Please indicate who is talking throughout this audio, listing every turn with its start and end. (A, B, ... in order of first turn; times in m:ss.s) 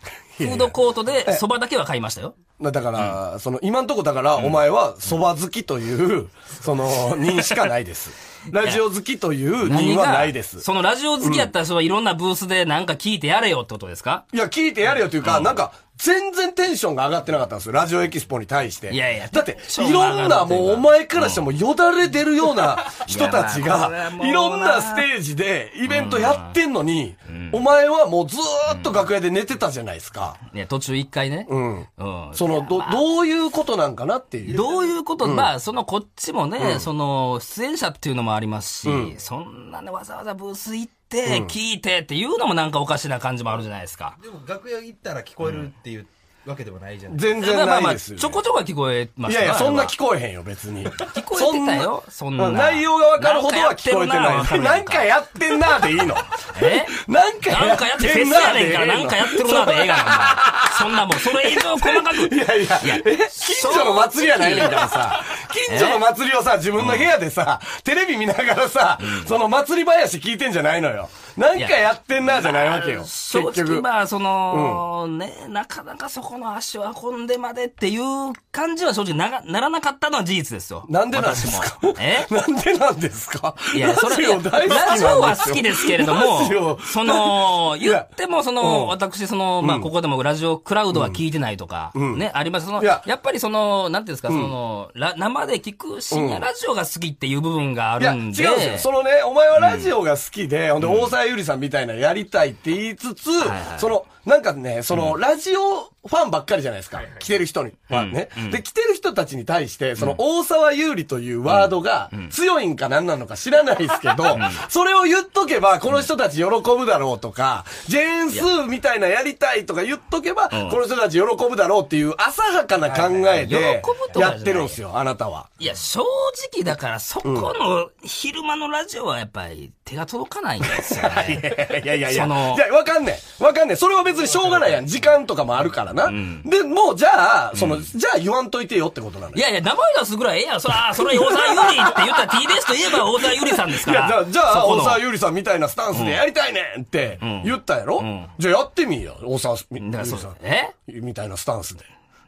0:00.4-0:01.4 A
0:00.4-0:02.4 B
0:02.6-0:10.6 A
0:09.6-0:14.2 B
0:11.2-0:11.5 A
0:14.3-0:30.4 A
0:15.2-0:15.6 B
0:18.9-0:21.4 B
0:22.9-0:25.1 B
0:25.9-0:26.6 B
0:27.3-0:27.6 B
0:28.7-0:29.0 B
0:30.5-0:33.0 B
0:31.5-0:34.6 A
0:34.5-0:34.9 C
0:34.5-0:44.2 B
0:35.2-0:35.5 A
0:36.6-0:36.9 A
0:38.8-0:39.1 A
0:41.2-0:41.5 A
0:44.2-0:47.2 C
0:47.1-0:48.4 A
0:47.4-0:49.9 B
0:49.2-1:13.8 A
0:51.0-0:55.1 B
0:56.4-0:57.0 B
0:57.5-1:05.1 B
1:05.7-1:06.0 B
1:06.8-1:07.1 B
1:09.0-1:09.3 B
1:11.5-1:22.3 B
1:14.5-1:14.8 A
1:20.8-1:28.1 A
1:23.7-1:38.9 B
1:28.6-1:28.9 A
1:29.6-1:29.9 A
1:30.9-1:31.2 A
1:31.9-1:32.2 A
1:32.8-1:33.0 A
1:34.3-1:34.5 A
1:36.1-1:36.5 A
1:38.0-2:05.5 A
1:39.6-1:39.9 B
1:40.8-1:41.1 B
1:43.4-1:43.9 B
1:47.9-1:48.6 B
1:51.5-1:52.3 B
1:54.3-1:54.6 B
2:00.5-2:00.8 B
2:02.9-2:03.4 C
2:03.4-2:04.8 B
2:05.6-2:12.6 B
2:07.2-2:07.5 A
2:10.7-2:19.4 A
2:16.0-2:16.5 B
2:17.5-2:17.9 B
2:19.3-2:25.0 B
2:20.9-2:31.9 A
2:25.9-2:26.2 B
2:27.2-2:28.3 B
2:29.8-2:30.7 B